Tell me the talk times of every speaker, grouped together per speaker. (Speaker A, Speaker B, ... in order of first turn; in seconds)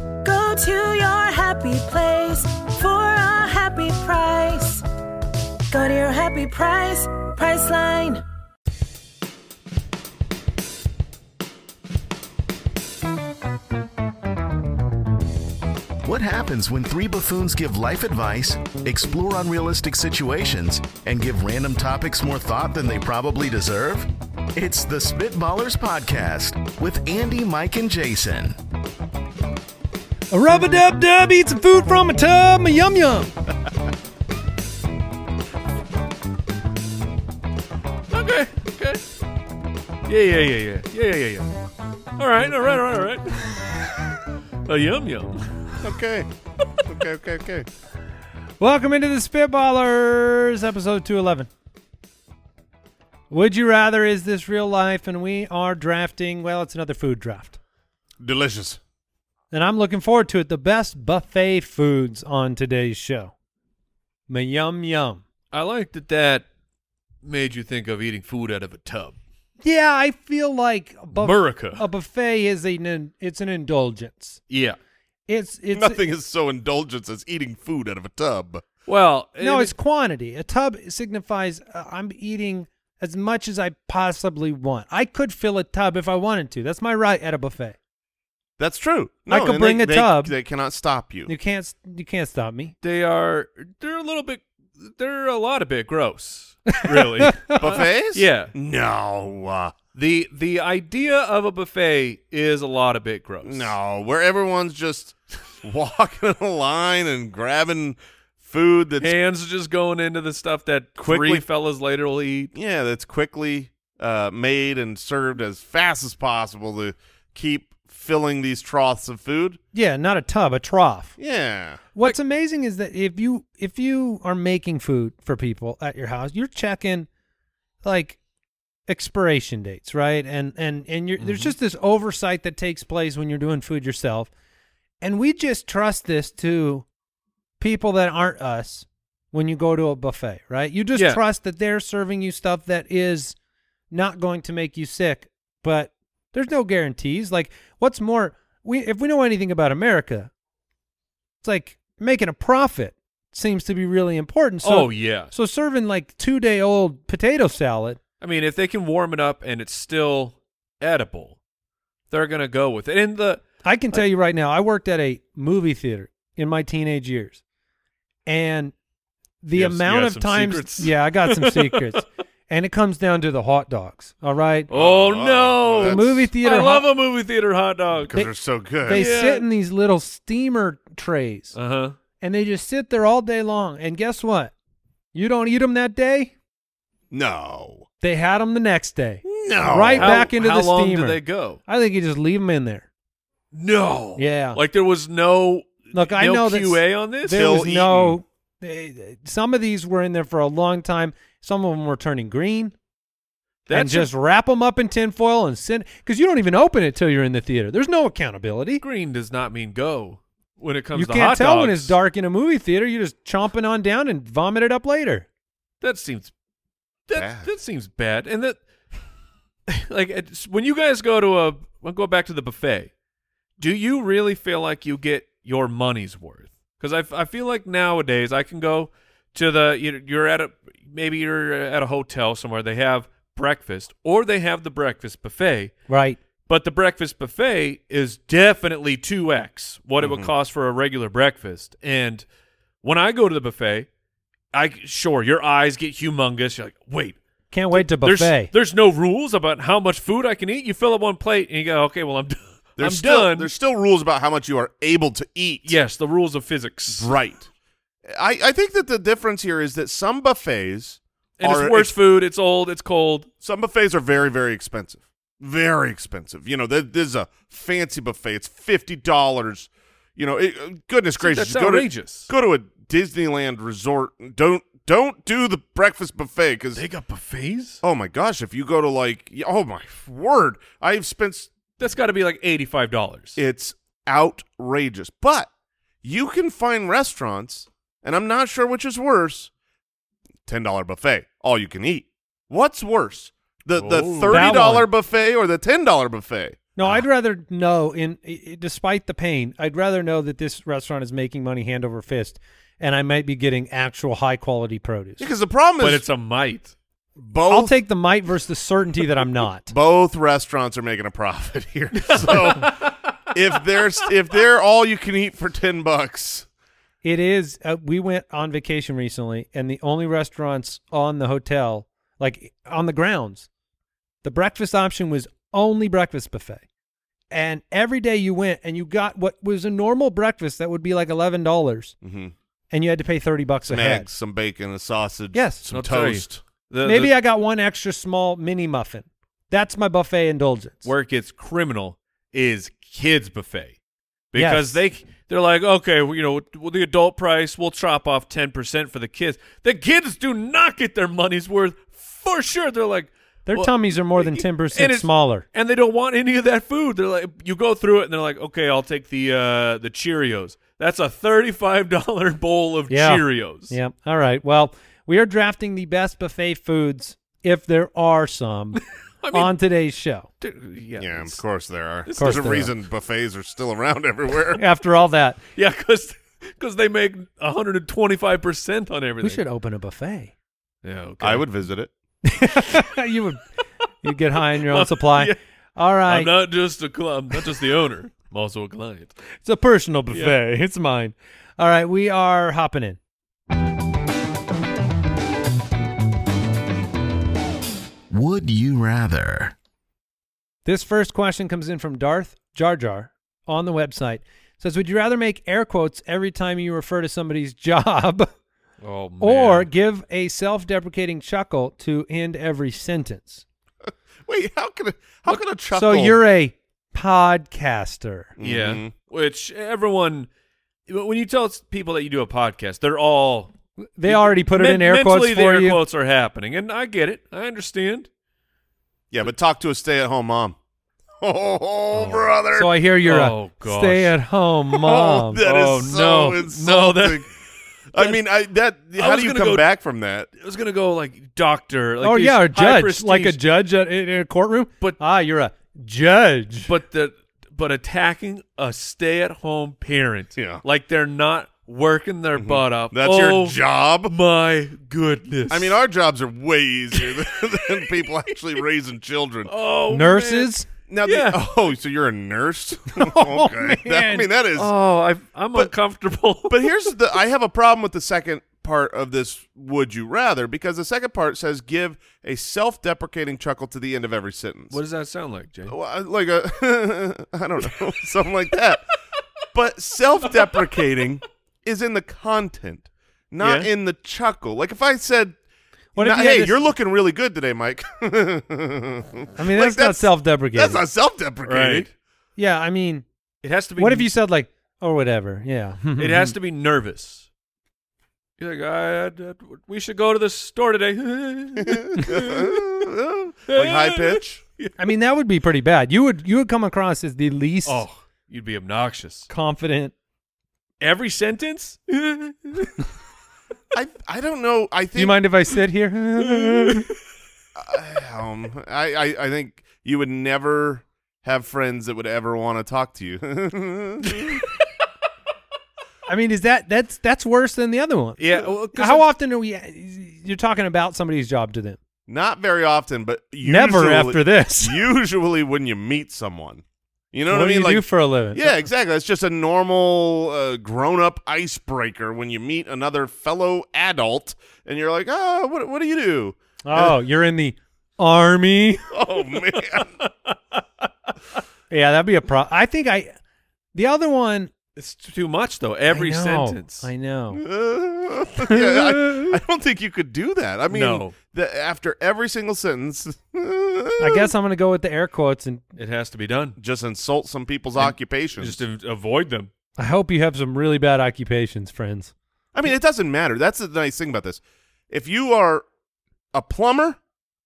Speaker A: 0.2-4.8, 5.7-8.2
Speaker B: 16.0-28.6, 398.1-399.5
Speaker C: 30.3-33.3, 48.6-51.5, 53.3-57.6, 59.5-63.3, 64.3-65.2, 69.6-74.4, 75.3-76.0, 79.4-87.8, 89.3-90.3, 91.3-92.7, 96.8-97.6, 119.7-121.2, 121.9-127.1, 127.8-128.2, 128.9-134.3, 135.0-136.8, 137.6-143.3, 143.9-150.3, 151.4-158.0, 163.6-167.4, 168.2-168.7, 169.4-174.7, 175.8-176.9, 178.9-181.6, 182.2-184.5, 185.1-186.3, 188.0-192.9, 194.2-194.6, 195.9-202.7, 203.7-208.8, 210.9-215.3, 235.9-236.2, 247.5-248.5, 294.3-294.9, 296.8-305.2, 307.5-309.7, 317.0-323.5, 324.2-326.6, 327.3-331.9, 332.7-334.1, 335.3-335.6, 336.8-340.9, 344.4-344.8, 353.5-355.4, 362.9-368.8, 369.3-370.3, 372.2-372.7, 374.6-375.4, 379.2-380.3, 382.2-383.4, 384.0-386.3, 389.4-393.0, 400.6-408.3, 409.2-413.4, 415.7-418.3, 424.0-425.8, 432.4-435.4, 442.0-446.7, 459.9-460.6, 462.9-464.3, 485.9-486.6, 489.4-490.8, 492.4-493.1, 493.8-496.3, 504.8-507.8, 509.3-509.9, 514.9-516.9, 526.1-531.8, 533.4-534.8, 537.3-538.6, 546.6-548.9, 551.7-553.1, 553.7-554.5, 555.9-557.4, 558.4-559.4, 564.0-565.6, 569.8-572.1
Speaker D: 38.1-39.0, 40.1-41.5, 42.2-43.9, 44.6-45.8, 65.5-66.4, 67.2-69.2, 71.1-71.8, 74.5-74.8, 78.9-79.7, 92.8-98.5, 99.9-103.7, 109.0-112.5, 131.2-131.5, 140.9-141.2, 154.6-155.3, 158.2-161.4, 162.1-163.4, 169.5-172.0, 174.7-178.1, 178.9-179.4, 181.5-182.0, 189.9-191.6, 193.5-197.4, 203.7-204.1, 208.8-211.9, 215.8-216.3, 217.1-218.6, 219.7-222.9, 223.6-235.7, 236.4-242.2, 242.8-243.9, 244.5-247.2, 247.7-253.5, 255.7-257.1, 261.4-263.3, 271.2-272.3, 276.8-277.8, 281.8-283.4, 293.8-294.7, 305.8-306.7, 312.1-312.9, 335.7-337.1, 340.8-343.8, 344.3-363.7, 368.7-369.5, 370.4-371.4, 372.0-372.7, 375.6-379.4, 380.8-381.5, 384.6-385.4, 386.1-389.1, 390.1-390.4, 408.8-409.7, 418.4-420.3, 420.9-428.1, 433.0-434.1, 435.4-437.3, 438.9-439.7, 440.4-443.4, 446.6-455.8, 456.9-457.9, 459.5-461.4, 464.5-466.9, 474.7-475.7, 480.3-480.6, 483.4-483.7, 491.4-491.9, 493.4-494.1, 496.0-497.3, 498.4-502.7, 503.5-504.8, 507.6-509.3, 510.8-512.8, 516.4-516.8, 524.1-524.4, 528.2-529.1, 549.5-550.8, 554.8-556.9, 560.7-561.1, 565.8-566.6, 567.8-569.5
Speaker E: 45.8-46.3, 46.8-47.7, 58.2-58.8, 75.7-78.7, 88.6-91.3, 97.6-99.8, 103.4-109.2, 111.0-111.4, 112.5-119.6, 121.2-121.8, 174.7-176.2, 178.0-179.0, 187.1-187.8, 189.2-190.3, 197.3-198.2, 217.1-217.5, 240.0-240.3, 252.8-255.7, 256.9-257.5, 258.1-261.9, 263.4-276.8, 277.8-281.5, 283.4-285.5, 286.0-289.5, 290.4-296.6, 305.2-306.0, 307.2-307.7, 309.7-312.8, 313.3-316.5, 332.0-332.3, 333.7-336.4, 371.0-374.6, 381.2-381.9, 414.2-416.2, 418.4-418.9, 429.1-430.6, 431.2-432.7, 434.7-437.3, 437.9-440.3, 450.4-450.6, 452.4-454.1, 455.5-459.5, 460.9-464.7, 466.5-474.8, 475.7-478.8, 479.5-485.4, 486.0-491.9, 501.6-504.4, 513.7-515.2, 517.5-524.4, 532.1-546.9, 548.9-549.9, 557.3-564.3, 566.6-568.6, 572.5-575.6, 576.3-577.0